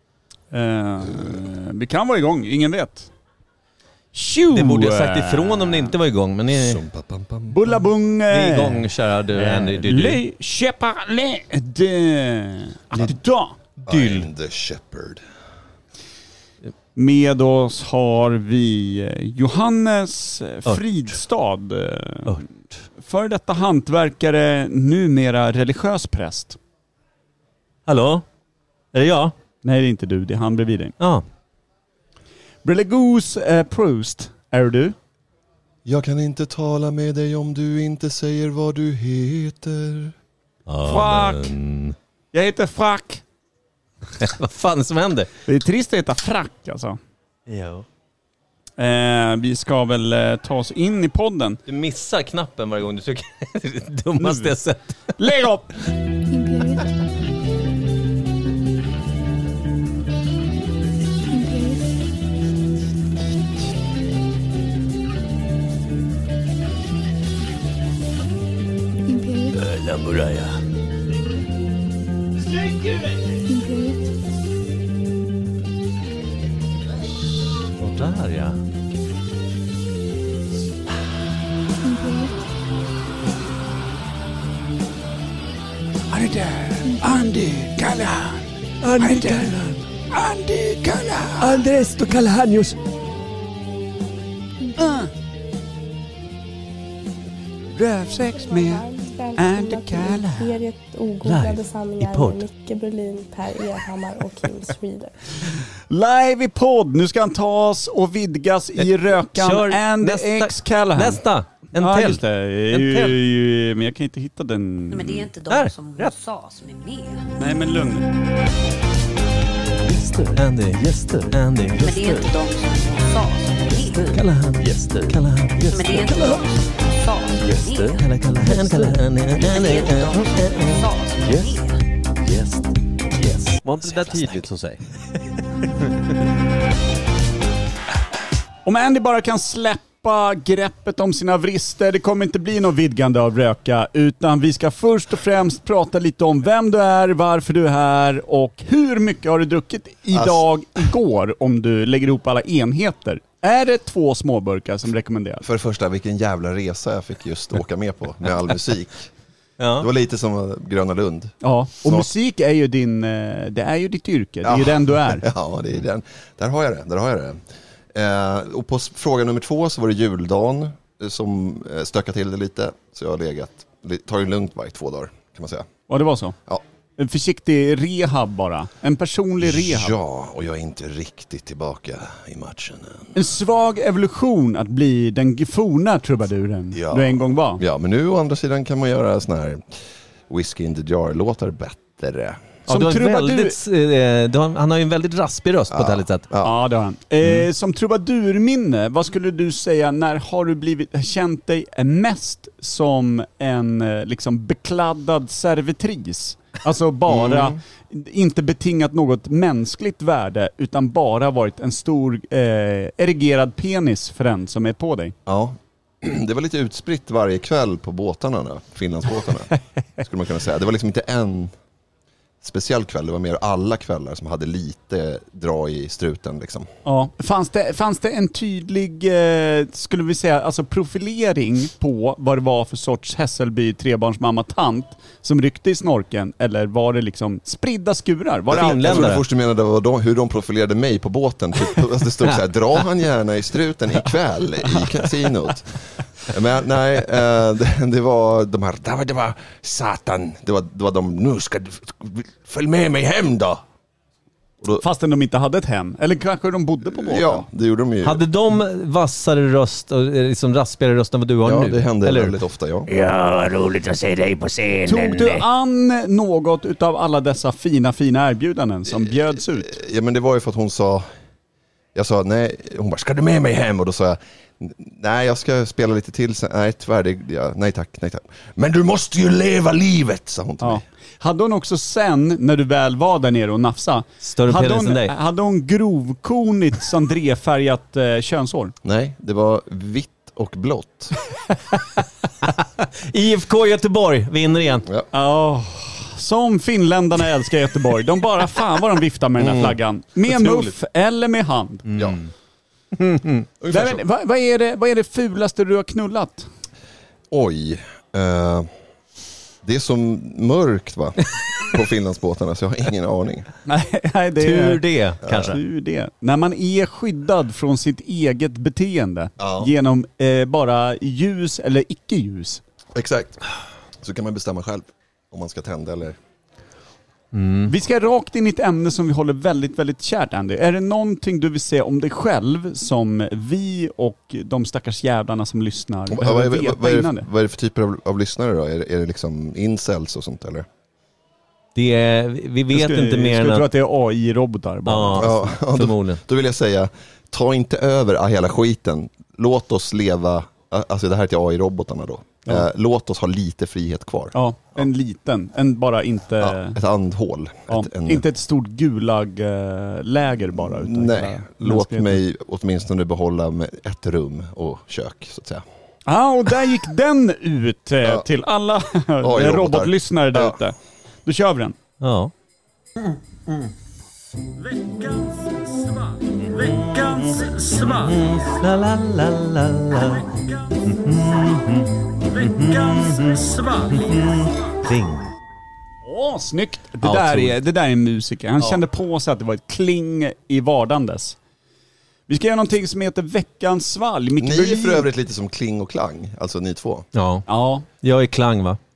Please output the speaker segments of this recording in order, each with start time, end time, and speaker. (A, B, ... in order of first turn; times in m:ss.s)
0:00.5-0:03.1 A
0:04.1-0:06.0 A
0:04.5-0:06.8 B
0:06.5-0:07.7 C
0:07.5-0:13.6 A
0:08.3-0:10.2 B
0:13.8-0:14.3 B
0:13.9-0:15.2 C
0:17.0-0:22.4 A
0:23.0-0:26.6 A
0:27.9-0:28.2 B
0:28.9-0:29.3 B
0:29.6-0:30.9 A
0:32.6-0:35.0 A
0:35.8-0:40.2 C
0:40.7-0:42.0 B
0:40.8-0:41.5 A
0:42.3-0:43.2 A
0:44.2-0:45.3 B
0:45.5-0:47.0 A
0:47.5-0:47.8 B
0:48.8-0:51.6 A
0:51.7-0:55.2 B
0:54.2-0:54.6 A
0:55.2-0:55.7 A
0:56.3-0:56.9 D
1:01.3-1:01.9 D
1:09.1-1:09.6 D
1:09.6-1:10.5 B
1:13.5-1:14.1 D
1:17.8-1:18.6 B
1:21.8-1:22.3 D
1:26.1-1:28.4 A
1:26.8-1:27.2 D
1:28.8-1:29.8 B
1:29.0-1:31.7 A
1:31.4-1:32.7 B
1:34.8-1:35.1 A
1:37.8-1:40.6 A
1:38.3-1:45.1 E
1:41.2-1:42.4 B
1:45.9-1:51.2 A
1:48.8-1:53.2 B
1:51.8-1:55.2 A
1:54.9-1:57.3 F
1:55.2-1:56.1 B
1:57.4-1:58.1 A
1:59.8-2:01.9 G
2:00.4-2:02.3 B
2:01.8-2:04.2 F
2:04.1-2:06.4 B
2:04.6-2:05.2 G
2:05.7-2:11.8 F
2:07.4-2:09.0 G
2:08.0-2:10.8 B
2:11.2-2:11.5 G
2:12.2-2:14.7 G
2:13.7-2:14.7 B
2:18.6-2:35.4 A
2:30.1-2:30.5 C
2:35.4-2:39.1 C
2:39.6-2:39.9 B
2:39.8-2:42.1 C
2:41.4-2:45.3 A
2:44.4-2:47.4 C
2:47.9-2:55.7 C
2:55.9-2:56.4 A
2:57.0-2:59.9 A
2:59.4-3:03.2 C
3:03.2-3:07.6 A
3:06.7-3:12.4 C
3:12.7-3:13.6 A
3:12.7-3:16.3 B
3:15.7-3:16.6 C
3:16.4-3:35.2 A
3:27.1-3:27.6 C
3:35.3-3:41.5 C
3:42.4-3:46.7 C
3:46.8-3:59.2 A
3:58.5-4:13.6 C
3:58.5-3:59.2 B
4:14.8-4:17.5 A
4:16.9-4:18.2 C
4:18.0-4:22.4 B
4:21.4-4:22.9 C
4:22.9-4:24.8 G
4:24.8-4:25.4 B
4:24.9-4:29.7 A
4:28.9-4:31.1 C
4:32.0-4:40.8 C
4:40.6-4:48.8 A
4:44.2-4:45.1 B
4:48.8-4:51.1 C
4:52.8-4:54.9 B
4:55.1-5:01.9 A
4:59.4-4:59.8 C
5:00.3-5:00.7 B
5:01.9-5:02.3 B
5:02.9-5:03.5 B
5:03.6-5:04.0 C
5:03.7-5:06.5 A
5:07.3-5:08.7 C
5:09.6-5:13.5 C
5:13.7-5:22.6 A
5:14.4-5:15.6 B
5:15.2-5:15.6 C
5:19.4-5:19.7 C
5:23.0-5:23.4 C
5:24.0-5:26.2 C
5:27.3-5:27.7 B
5:27.7-5:37.3 A
5:36.1-5:40.7 C
5:41.8-5:43.7 B
5:42.7-5:45.5 A
5:44.9-5:46.2 B
5:45.2-5:54.8 C
5:54.3-5:56.8 A
5:56.4-5:58.2 C
5:57.7-6:02.2 A
6:00.5-6:05.6 C
6:06.1-6:11.8 A
6:09.2-6:10.6 C
6:12.0-6:12.3 B
6:16.5-6:25.3 B
6:26.0-6:31.4 A
6:27.0-6:27.6 B
6:32.3-6:35.1 A
6:34.4-6:37.1 C
6:37.1-6:37.5 B
6:37.5-6:37.9 A
6:38.0-6:38.8 B